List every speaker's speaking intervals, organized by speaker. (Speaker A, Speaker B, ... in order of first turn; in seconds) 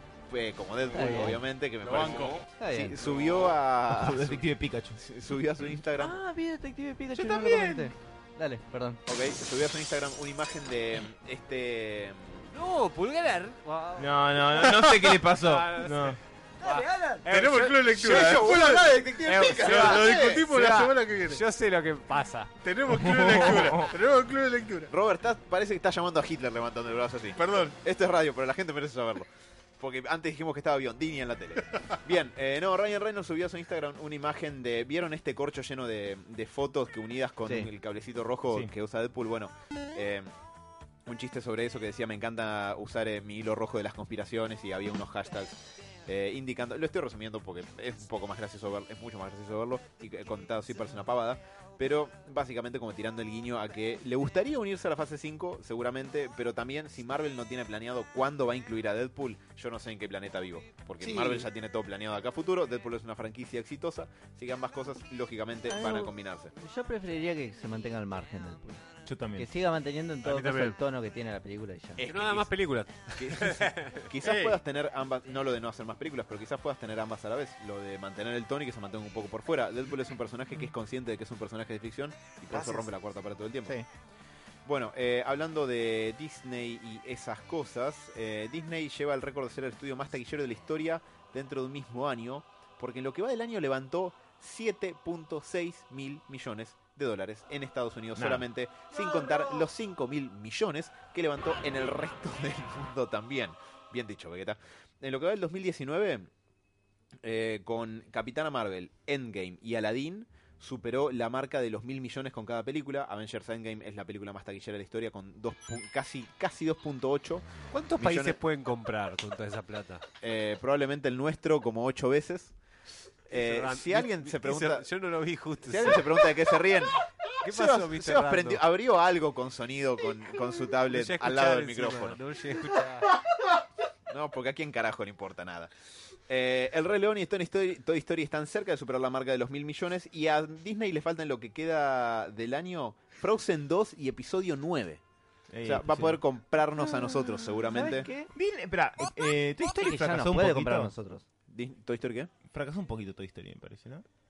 Speaker A: 0.3-6.2, 9.1-12.4, 17.8-20.5, 24.9-40.3, 41.1-66.5, 72.0-72.5, 73.2-83.8, 84.7-106.3, 107.2-118.4, 120.2-122.5, 123.3-124.9, 125.7-132.2, 134.1-135.7, 136.3-145.0, 145.7-148.1, 151.5-152.3
Speaker B: 0.9-1.4, 2.6-3.0, 6.0-9.0, 16.6-17.2, 61.0-61.5, 65.7-72.0, 82.5-82.9, 147.7-148.3, 149.8-151.2
Speaker C: 1.8-2.4, 14.6-15.2, 17.3-19.0, 19.5-21.4, 22.6-24.9, 27.4-27.8, 74.2-74.6
Speaker D: 3.9-5.0, 7.1-7.9, 14.0-16.2, 22.9-23.9, 69.1-69.5, 98.2-98.5, 145.5-146.2, 148.3-150.9, 152.5-154.1
Speaker E: 12.5-18.6, 19.2-22.6, 70.2-70.8, 72.0-74.1, 117.7-120.0, 123.3-126.3, 127.4-128.6, 130.9-133.1